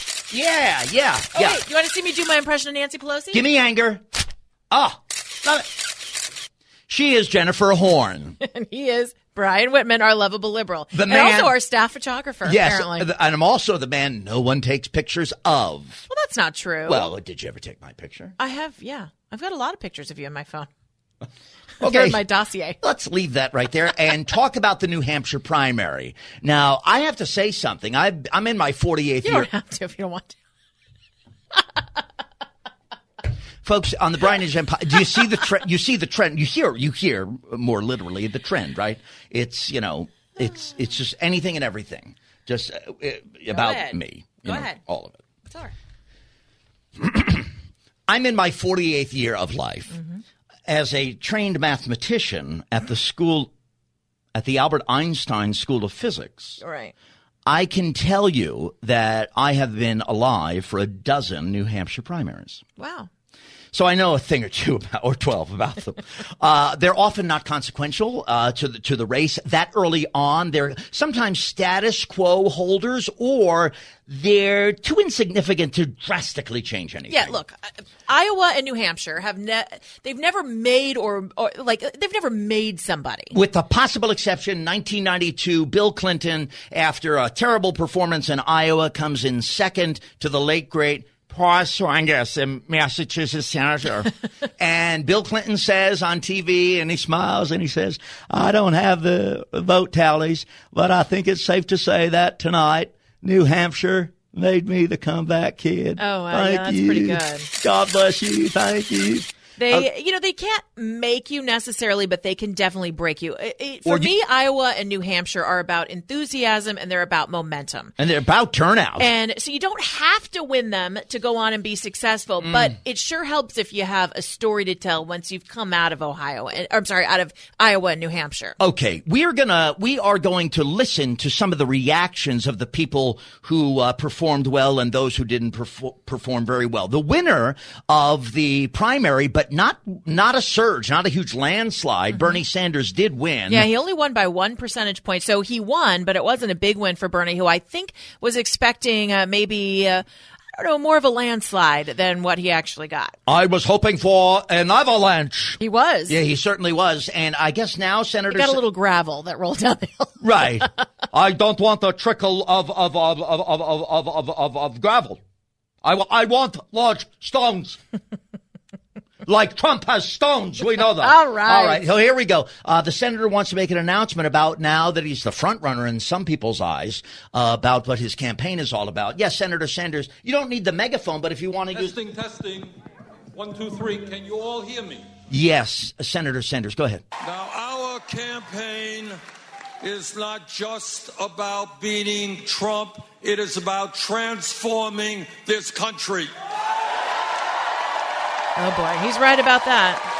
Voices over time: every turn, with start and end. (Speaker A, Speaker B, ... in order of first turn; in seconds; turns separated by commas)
Speaker A: 0.3-1.6, Speaker B: 1.3-3.4, Speaker A: 3.3-4.0, Speaker A: 4.7-5.8, Speaker A: 6.9-8.4, Speaker B: 8.4-13.1, Speaker A: 10.9-11.6, Speaker A: 12.4-16.1, Speaker B: 16.1-17.1, Speaker A: 16.9-18.3, Speaker B: 18.4-20.7, Speaker A: 21.8-22.2, Speaker B: 21.8-22.8, Speaker A: 22.8-29.5, Speaker B: 29.2-30.4, Speaker A: 33.6-45.2, Speaker B: 43.5-44.8, Speaker B: 45.5-45.7, Speaker A: 47.0-47.5, Speaker A: 48.1-50.0, Speaker B: 49.9-50.2, Speaker A: 50.6-53.5, Speaker A: 54.3-56.6, Speaker B: 56.6-56.9, Speaker A: 57.5-62.6, Speaker B: 62.8-63.1, Speaker A: 63.7-77.4, Speaker B: 77.1-83.3, Speaker A: 83.3-109.9, Speaker B: 106.0-107.5, Speaker B: 109.6-117.9, Speaker A: 113.8-114.1, Speaker A: 118.0-119.1, Speaker B: 119.0-128.6, Speaker A: 122.4-122.7, Speaker A: 128.6-143.7, Speaker B: 142.1-142.4, Speaker B: 143.5-150.0, Speaker B: 150.5-153.2, Speaker A: 153.3-158.6, Speaker B: 155.6-156.2, Speaker B: 158.3-160.4, Speaker A: 160.2-165.2, Speaker A: 165.8-167.8, Speaker A: 169.2-182.0, Speaker B: 171.0-171.9, Speaker C: 181.7-182.7, Speaker C: 183.3-185.1, Speaker A: 185.3-187.0, Speaker C: 187.2-189.2, Speaker C: 189.8-196.3, Speaker B: 198.6-200.0